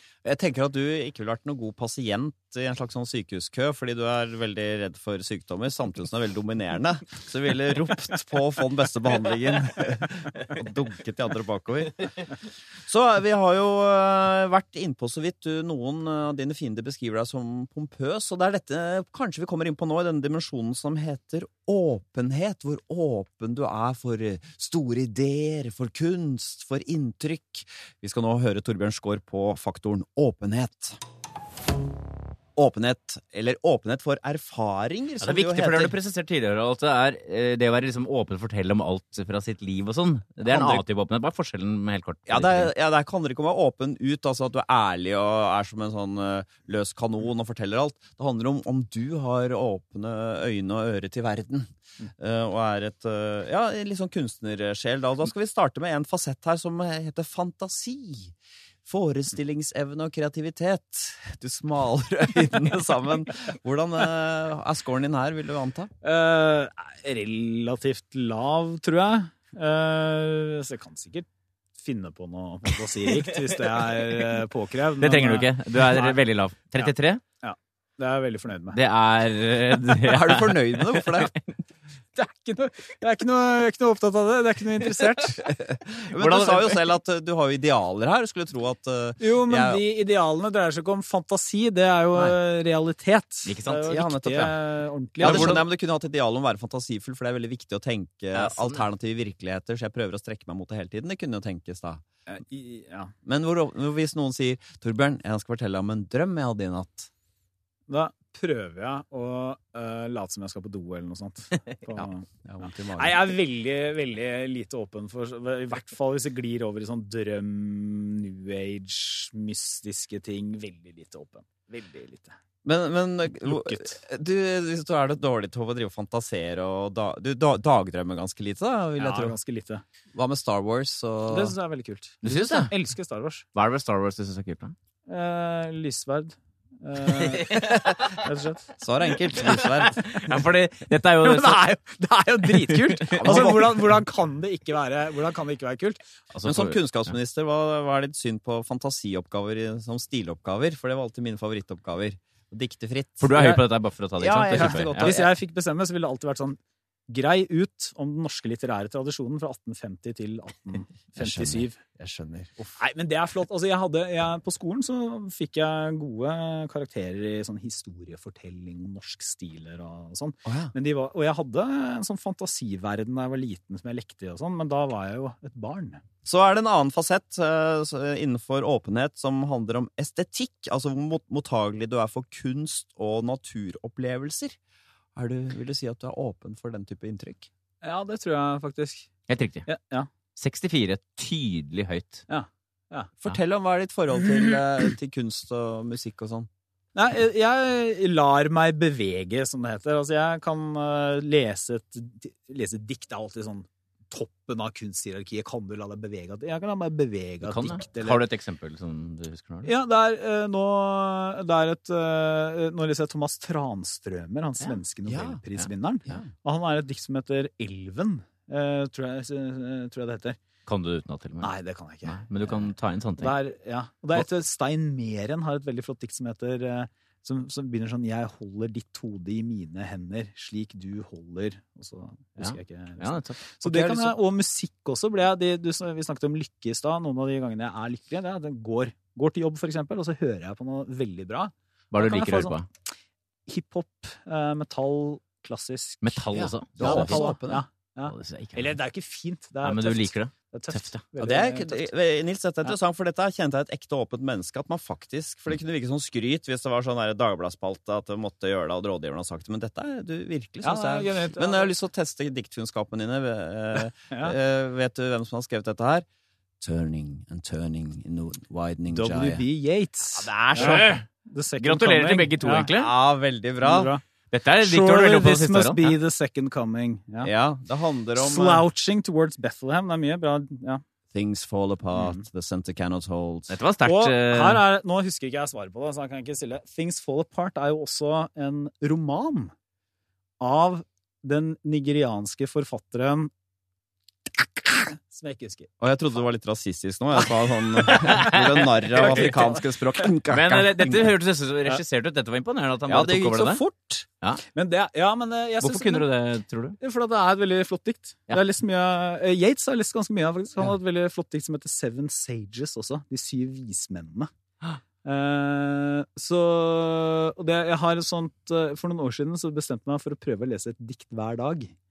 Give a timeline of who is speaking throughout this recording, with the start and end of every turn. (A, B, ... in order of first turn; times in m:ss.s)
0:00.2-0:12.3 A
0:12.9-0:31.0 A
0:32.6-0:36.0 A
0:35.2-0:42.7 B
0:40.4-0:40.8 A
0:42.3-0:58.3 A
0:58.9-1:05.9 A
1:06.0-1:11.3 C
1:11.8-1:16.2 C
1:15.0-1:17.2 B
1:16.8-1:18.8 C
1:18.7-1:21.4 B
1:20.0-1:21.3 A
1:22.2-1:25.5 C
1:25.4-1:29.8 A
1:26.2-1:26.8 B
1:29.2-1:35.6 C
1:33.5-1:33.8 B
1:33.8-1:34.6 A
1:35.2-1:35.6 B
1:35.2-1:42.0 A
1:38.3-1:38.9 B
1:42.3-1:43.1 C
1:43.2-1:47.1 A
1:47.9-2:02.4 C
1:52.0-1:53.3 A
2:02.6-2:09.4 A
2:03.4-2:04.0 C
2:09.0-2:09.8 C
2:10.1-2:11.6 A
2:11.3-2:13.4 C
2:12.2-2:12.7 B
2:13.6-2:14.8 B
2:15.1-2:18.8 C
2:18.8-2:20.1 A
2:19.4-2:21.7 B
2:21.2-2:26.0 C
2:23.0-2:23.6 B
2:23.1-2:23.8 A
2:26.3-2:27.1 B
2:26.4-2:33.5 A
2:33.2-2:35.2 B
2:33.3-2:33.6 C
2:34.2-2:35.3 A
2:34.5-2:41.8 C
2:41.2-2:42.6 A
2:42.8-2:56.0 C
2:50.4-2:50.7 A
2:56.2-3:04.6 A
3:05.2-3:07.5 A
3:07.8-3:09.1 C
3:09.3-3:09.7 B
3:09.7-3:10.1 C
3:10.4-3:12.2 B
3:12.3-3:13.1 C
3:13.2-3:16.5 A
3:17.0-3:28.2 C
3:27.4-3:29.7 B
3:29.6-3:40.4 C
3:35.1-3:35.4 A
3:40.7-3:43.4 B
3:41.4-3:42.7 C
3:43.2-4:02.6 C
3:52.4-3:53.5 B
3:53.6-3:54.1 A
4:01.9-4:02.7 B
4:03.5-4:06.2 C
4:06.0-4:07.3 B
4:06.3-4:07.6 A
4:06.8-4:11.9 C
4:08.1-4:08.8 B
4:09.6-4:11.0 B
4:11.2-4:26.1 A
4:20.6-4:21.7 C
4:24.1-4:24.4 C
4:26.6-4:29.4 A
4:28.9-4:32.7 C
4:30.2-4:30.9 A
4:30.4-4:31.0 B
4:31.6-4:32.9 B
4:32.8-4:33.9 A
4:33.6-4:34.0 C
4:34.3-4:36.0 B
4:34.6-4:37.3 C
4:37.2-4:38.7 A
4:38.2-4:40.8 C
4:41.1-4:43.6 A
4:42.0-4:42.2 C
4:43.5-4:44.6 B
4:43.8-4:49.5 C
4:50.4-4:53.3 C
4:54.3-4:55.7 C
4:55.8-5:01.2 A
4:57.9-4:59.4 B
4:57.9-4:58.4 C
4:58.9-4:59.7 C
5:00.3-5:03.6 B
5:02.9-5:04.1 A
5:04.5-5:06.1 C
5:05.6-5:06.8 B
5:06.8-5:14.3 C
5:15.0-5:21.7 C